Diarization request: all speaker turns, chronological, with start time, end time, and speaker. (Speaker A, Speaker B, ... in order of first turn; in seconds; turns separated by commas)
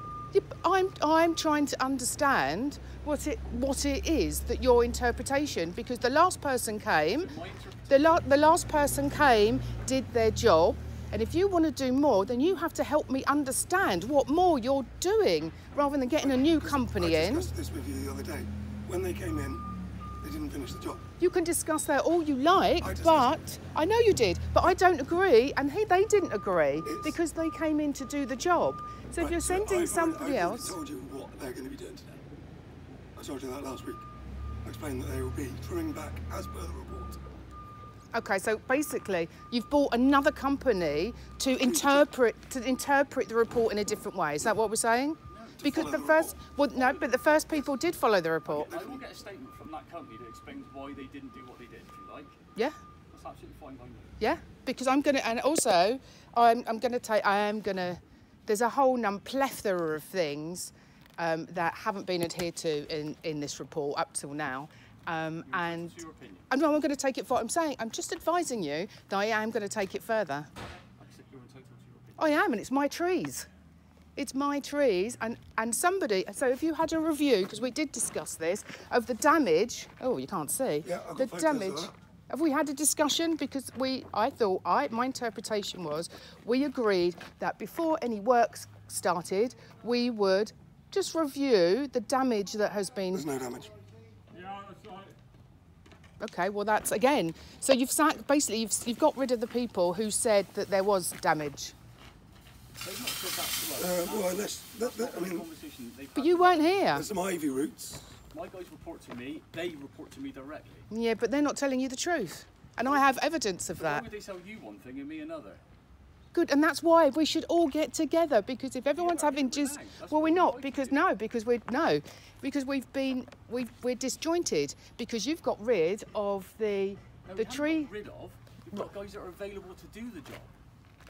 Speaker A: 0.3-7.3, Speaker B: 7.2-8.2, Speaker A: 7.9-17.5, Speaker C: 16.1-19.6, Speaker C: 20.2-21.0, Speaker A: 21.2-30.8, Speaker C: 22.8-23.3, Speaker C: 26.9-27.1, Speaker C: 29.2-32.2, Speaker C: 33.1-34.0, Speaker C: 34.6-37.2, Speaker A: 38.1-48.7, Speaker C: 41.6-42.0, Speaker B: 45.3-45.7, Speaker C: 45.6-46.5, Speaker B: 46.7-47.7, Speaker B: 48.5-52.4, Speaker C: 48.6-49.0, Speaker B: 53.1-54.2, Speaker A: 54.2-66.0, Speaker B: 65.5-66.5, Speaker A: 66.5-70.5, Speaker B: 71.0-72.3, Speaker A: 72.2-73.5, Speaker A: 74.2-93.3, Speaker C: 80.8-81.9, Speaker C: 93.1-93.7, Speaker B: 94.4-95.0, Speaker A: 96.2-101.7, Speaker B: 102.8-106.8, Speaker C: 103.8-105.5, Speaker A: 106.1-107.1, Speaker C: 106.9-108.1, Speaker B: 108.3-110.9, Speaker A: 110.9-114.0, Speaker B: 112.9-113.1, Speaker B: 113.8-115.6, Speaker A: 116.3-127.9, Speaker B: 119.0-121.0, Speaker B: 127.2-130.5